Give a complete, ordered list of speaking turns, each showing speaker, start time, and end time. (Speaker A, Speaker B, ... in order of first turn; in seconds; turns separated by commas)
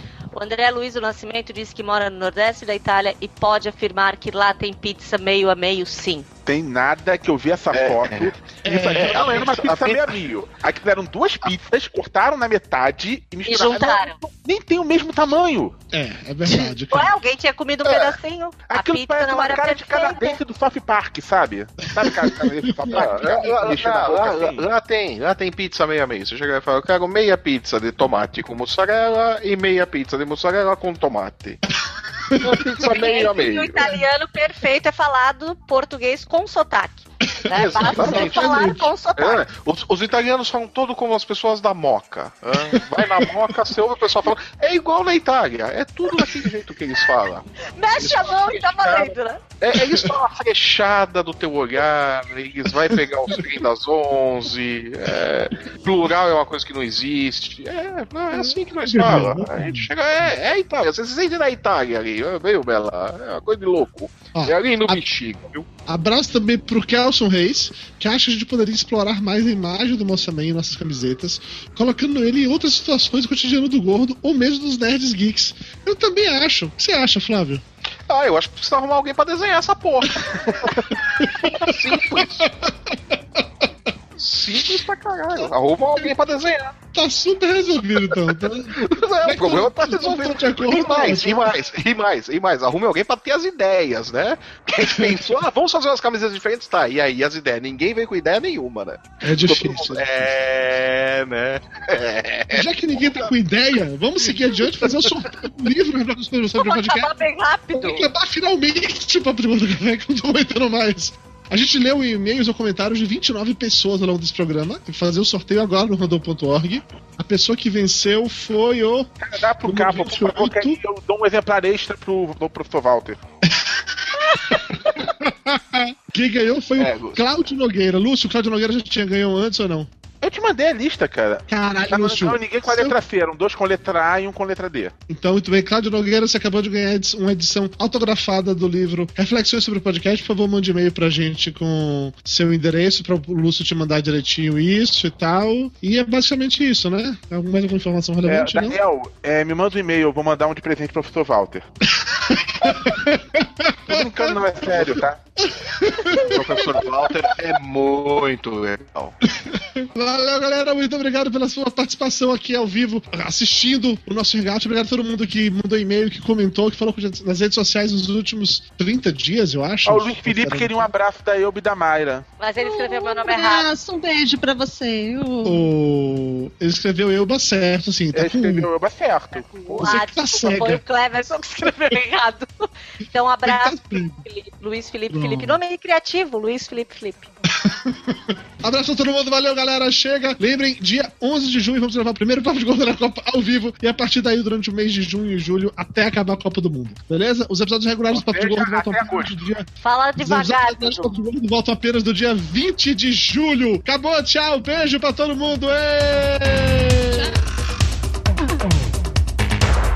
Speaker A: 0.3-6.3, Speaker B: 6.5-15.7, Speaker C: 7.7-10.2, Speaker D: 8.6-9.5, Speaker A: 13.4-14.2, Speaker D: 15.9-17.1, Speaker A: 16.5-20.4, Speaker B: 17.9-18.1, Speaker B: 18.7-24.7, Speaker D: 21.9-23.9, Speaker C: 22.9-31.6, Speaker D: 32.3-32.6, Speaker C: 32.5-34.0, Speaker A: 32.7-39.4, Speaker C: 37.5-65.7, Speaker D: 37.7-38.9, Speaker D: 42.7-43.6, Speaker A: 47.8-49.4, Speaker D: 49.7-50.1, Speaker D: 52.8-53.4, Speaker D: 58.3-59.9, Speaker D: 64.3-65.0, Speaker D: 65.9-77.6, Speaker C: 78.1-82.5, Speaker D: 81.2-83.5, Speaker C: 84.2-86.7, Speaker D: 86.9-91.5, Speaker C: 88.8-102.7, Speaker D: 94.8-95.3, Speaker D: 99.2-100.3, Speaker D: 102.5-107.1, Speaker A: 106.6-108.1, Speaker D: 107.7-120.8, Speaker B: 119.2-123.2, Speaker D: 123.5-124.2, Speaker D: 125.1-129.9, Speaker C: 126.8-127.2, Speaker B: 130.2-134.9, Speaker D: 131.5-133.0, Speaker D: 135.1-148.8, Speaker B: 148.2-151.7, Speaker D: 151.9-156.8, Speaker B: 153.9-155.2, Speaker C: 156.2-159.2, Speaker D: 159.5-170.9, Speaker B: 169.8-172.2, Speaker A: 172.4-173.7, Speaker E: 172.6-175.7, Speaker D: 175.4-178.7, Speaker B: 178.1-179.9, Speaker A: 179.6-187.3, Speaker D: 179.8-180.8, Speaker D: 183.4-184.2, Speaker D: 185.1-185.6, Speaker D: 187.6-207.3, Speaker B: 198.1-199.4, Speaker A: 199.8-201.1, Speaker E: 207.1-207.4